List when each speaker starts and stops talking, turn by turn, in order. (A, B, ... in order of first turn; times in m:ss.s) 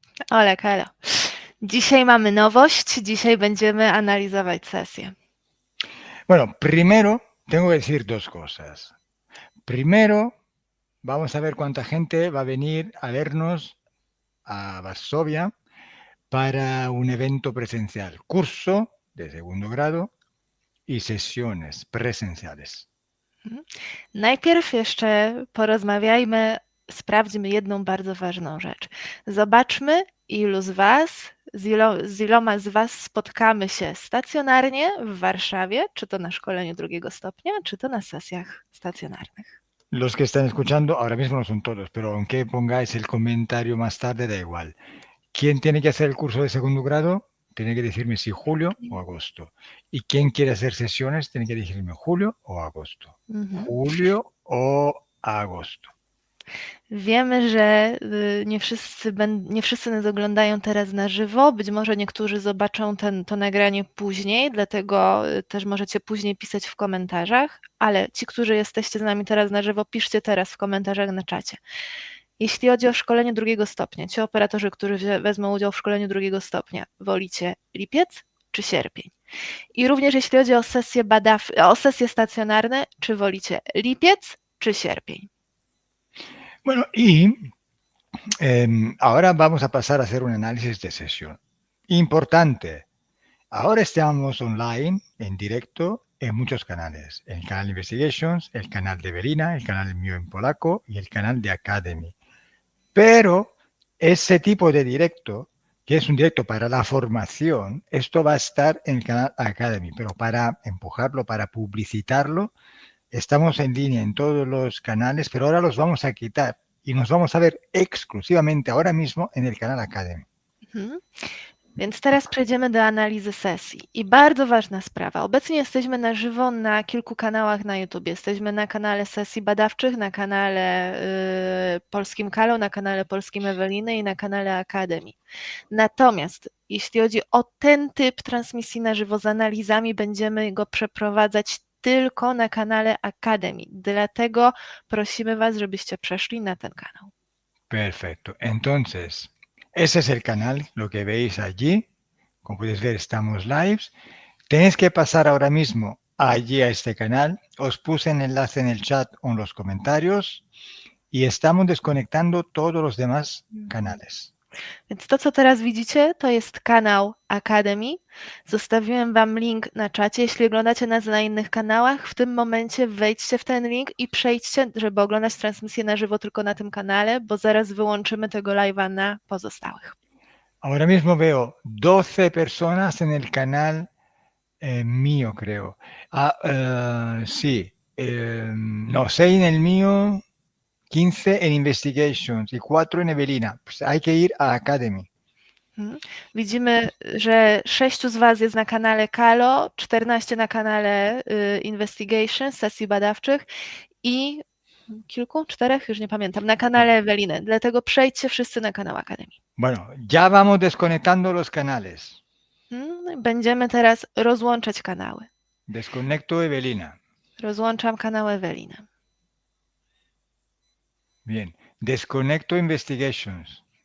0:00.3-0:05.2 A
0:06.3-0:09.0 B
0:09.6-0:10.4 B
0:11.0-0:13.8 B
0:14.5-0:15.5 B
0:16.3-0:20.1 B
0:20.9-0:22.9 B
0:23.4-0:39.5 A
0:39.9-0:44.8 B
0:45.3-0:55.9 B
0:53.3-0:53.7 A
0:56.9-1:11.6 A
1:12.4-1:19.1 A
1:19.8-1:25.3 A
1:26.6-1:27.5 B
1:28.4-1:32.9 B
1:33.5-1:42.2 B
1:43.0-1:52.5 B
1:53.1-2:00.2 B
2:00.7-2:01.2 A
2:01.8-2:15.2 A
2:15.7-2:27.1 A
2:27.7-2:31.9 B
2:32.4-2:33.9 B
2:34.5-2:40.4 B
2:41.1-2:44.3 B
2:44.9-3:00.0 A
3:00.6-3:03.9 B
3:04.6-3:10.2 B
3:10.9-3:15.1 B
3:15.8-3:23.5 A
3:24.0-3:29.3 A
3:29.6-3:32.2 B
3:32.7-3:35.3 A
3:35.7-3:37.0 B
3:37.4-3:38.9 A
3:41.2-3:43.6 B